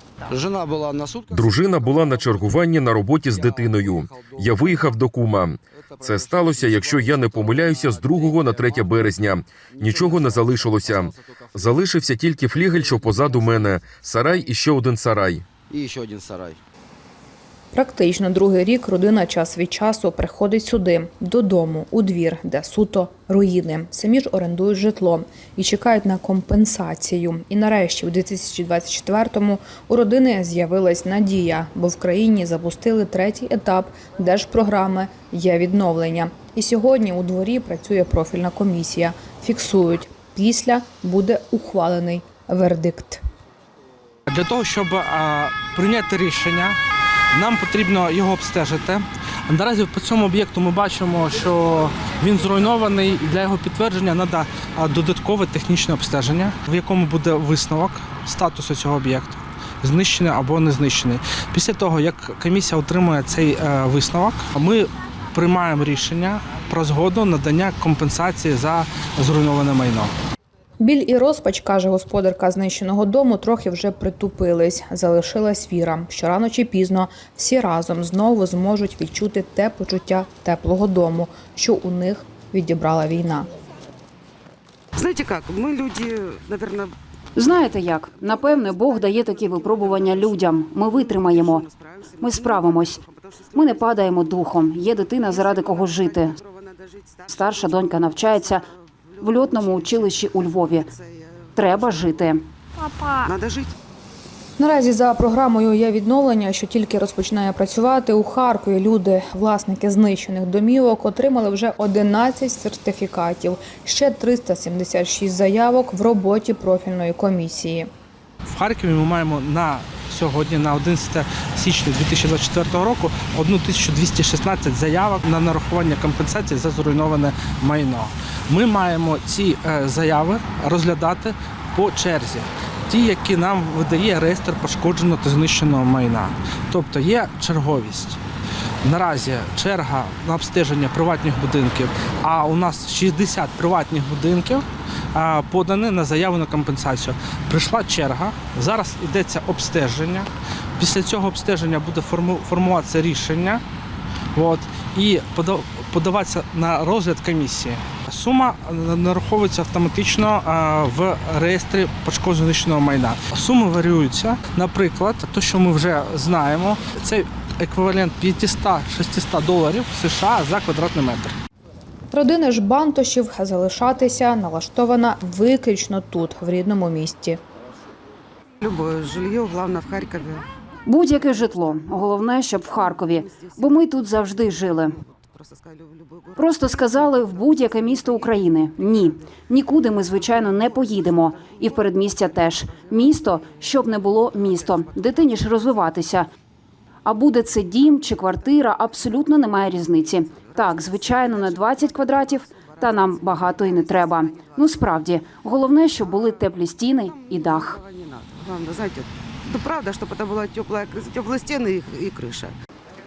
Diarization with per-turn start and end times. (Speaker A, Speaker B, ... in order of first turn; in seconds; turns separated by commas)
Speaker A: 0.3-1.4, Speaker B: 1.3-15.4, Speaker A: 9.9-10.5, Speaker A: 15.7-16.6, Speaker C: 17.7-43.2, Speaker D: 44.3-46.8, Speaker D: 47.3-70.1, Speaker C: 70.8-83.5, Speaker E: 85.0-86.9, Speaker F: 87.4-91.7, Speaker E: 89.4-90.3, Speaker E: 91.1-94.4, Speaker F: 92.2-93.0, Speaker F: 93.5-96.4, Speaker E: 95.1-98.0, Speaker F: 97.3-98.6, Speaker E: 99.1-100.6, Speaker F: 99.2-100.9, Speaker F: 101.5-102.4, Speaker E: 103.2-103.7, Speaker C: 104.6-117.9, Speaker D: 118.5-138.2, Speaker D: 138.8-153.6, Speaker D: 154.3-171.4, Speaker C: 172.1-177.4, Speaker E: 178.6-180.5, Speaker F: 180.9-184.9, Speaker E: 185.4-186.4, Speaker F: 186.4-196.3, Speaker F: 197.1-207.8, Speaker E: 200.6-204.5, Speaker E: 207.2-212.5